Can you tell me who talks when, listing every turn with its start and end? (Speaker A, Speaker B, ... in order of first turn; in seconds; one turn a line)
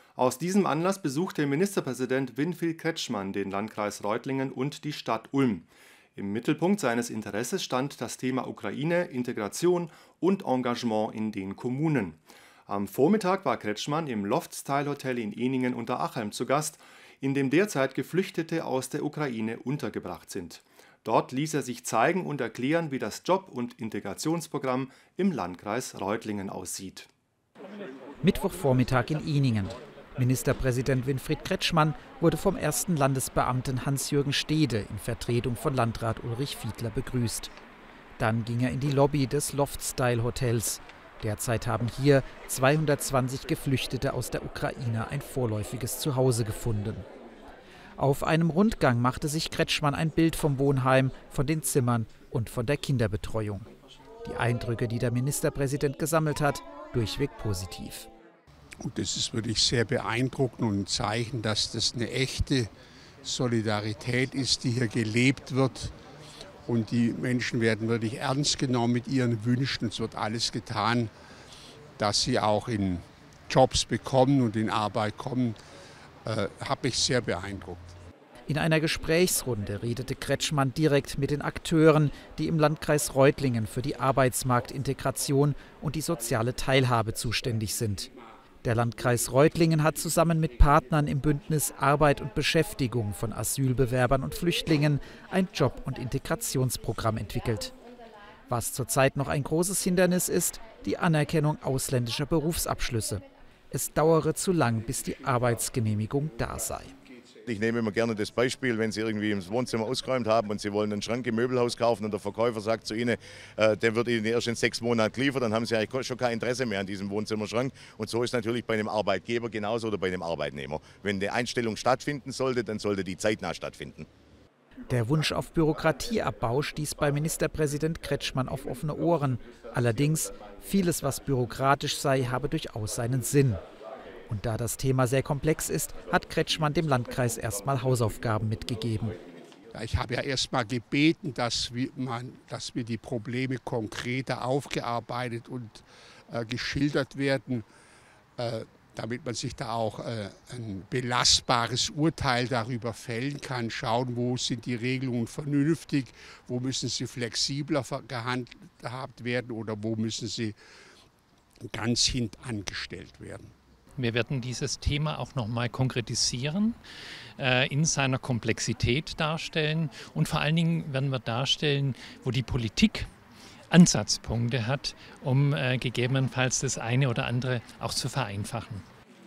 Speaker A: 0.2-27.1
Speaker B: 28.2-37.5
Speaker B: 38.2-47.1
Speaker B: 48.0-53.6
Speaker B: 54.2-58.1
Speaker C: 58.8-62.7
Speaker C: 63.2-65.9
Speaker C: 66.7-71.1
Speaker C: 72.0-75.6
Speaker C: 76.2-77.9
Speaker B: 78.5-88.1
Speaker B: 88.6-97.7
Speaker B: 98.5-106.9
Speaker D: 107.5-124.1
Speaker B: 124.9-133.6
Speaker B: 134.3-139.2
Speaker C: 139.7-147.7
Speaker C: 148.4-160.6
Speaker C: 161.7-163.5
Speaker E: 164.0-166.8
Speaker E: 167.4-173.1
Speaker E: 173.7-178.8